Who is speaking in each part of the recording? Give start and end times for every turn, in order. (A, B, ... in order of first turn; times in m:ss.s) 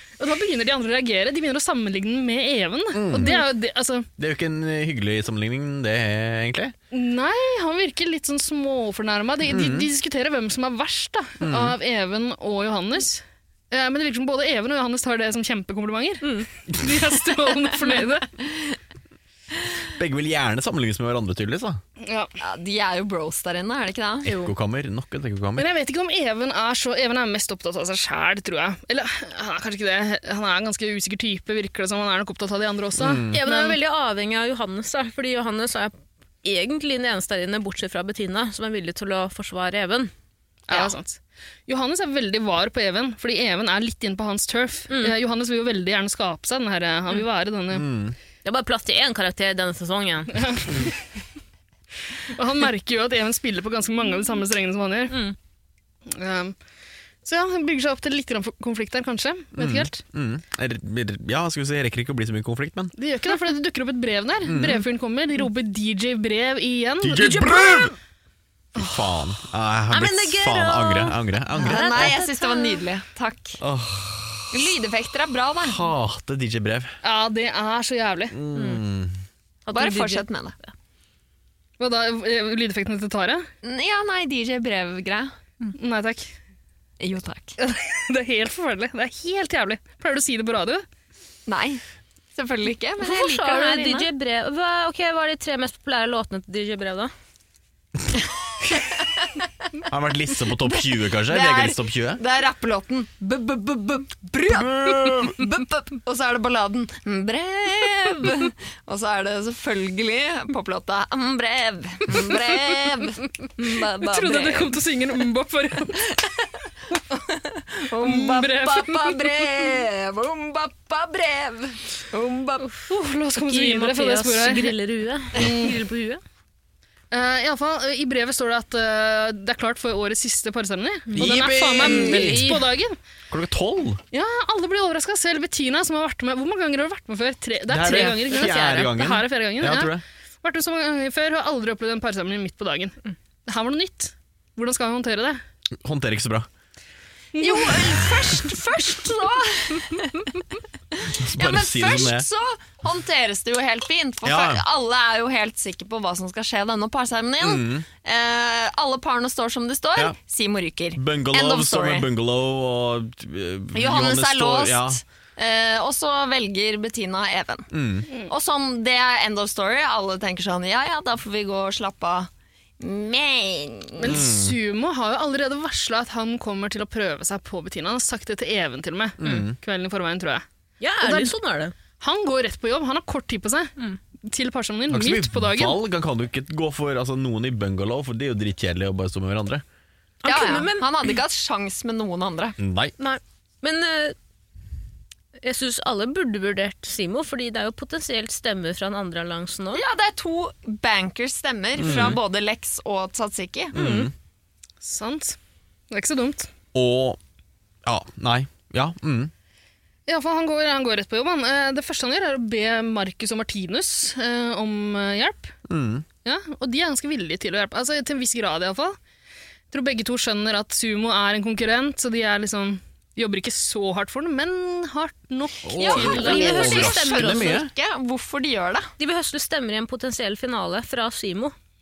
0:00.2-0:04.1 A
0:02.9-0:03.5 B
0:04.2-0:06.7 B
0:06.9-0:18.3 A
0:09.4-0:09.9 B
0:11.4-0:11.8 B
0:19.9-0:21.8 B
0:22.0-0:22.3 A
0:22.4-0:24.3 C
0:24.2-0:24.5 D
0:24.2-0:25.7 B
0:25.6-0:33.7 A
0:33.0-0:33.4 B
0:33.3-0:40.1 D
0:40.7-0:47.9 A
0:44.9-0:45.1 D
0:47.7-0:48.2 B
0:48.4-0:50.4 D
0:50.3-0:50.9 A
0:52.3-0:55.2 A
0:55.1-0:55.4 D
0:56.1-0:56.6 A
0:57.2-1:00.0 A
0:59.6-1:02.9 B
1:03.0-1:07.9 A
1:04.4-1:04.8 B
1:07.0-1:07.9 B
1:08.7-1:12.2 B
1:09.9-1:12.8 D
1:11.6-1:13.6 C
1:13.6-1:14.5 B
1:14.5-1:15.8 C
1:15.6-1:17.0 B
1:17.0-1:18.3 A
1:18.3-1:19.2 B
1:18.5-1:18.8 D
1:19.6-1:20.7 D
1:19.7-1:20.5 C
1:21.8-1:23.5 A
1:23.6-1:25.3 C
1:25.7-1:26.3 A
1:27.0-1:27.6 C
1:27.6-1:30.8 A
1:31.4-1:31.8 C
1:32.3-1:34.1 C
1:33.0-1:37.1 D
1:38.9-1:39.3 C
1:39.9-1:42.2 B
1:41.3-1:54.8 C
1:44.4-1:45.4 B
1:54.0-1:56.1 A
1:57.1-2:02.6 C
1:57.9-1:59.2 A
2:02.9-2:04.8 A
2:03.4-2:06.2 D
2:05.4-2:05.8 A
2:07.1-2:13.0 A
2:11.1-2:12.6 D
2:11.2-2:12.5 B
2:13.3-2:14.0 B
2:14.1-2:25.4 A
2:17.7-2:20.0 B
2:25.8-2:26.5 B
2:27.4-2:27.9 A
2:27.4-2:30.4 C
2:31.0-2:42.1 C
2:31.1-2:32.2 B
2:34.2-2:34.6 B
2:37.4-2:37.8 B
2:40.9-2:45.0 B
2:43.7-2:52.3 C
2:47.7-2:48.1 B
2:52.8-2:54.2 C
2:54.0-3:00.4 A
2:54.1-2:54.5 B
2:59.2-2:59.6 B
3:00.8-3:01.7 D
3:01.0-3:01.3 A
3:02.0-3:03.7 A
3:04.3-3:05.8 A
3:04.9-3:09.6 B
3:10.2-3:10.9 D
3:10.2-3:12.6 C
3:12.6-3:12.9 B
3:13.0-3:14.2 D
3:15.4-3:19.8 D
3:19.7-3:23.7 C
3:21.8-3:22.2 B
3:23.7-3:24.1 D
3:23.7-3:24.1 B
3:24.8-3:25.4 A
3:25.9-3:26.5 A
3:26.7-3:27.2 B
3:27.8-3:29.3 B
3:30.1-3:35.5 A
3:35.7-3:36.0 B
3:36.2-3:39.0 A
3:39.7-3:47.0 A
3:45.6-3:47.7 B
3:45.7-3:47.6 D
3:46.0-3:48.9 C
3:49.0-3:51.5 D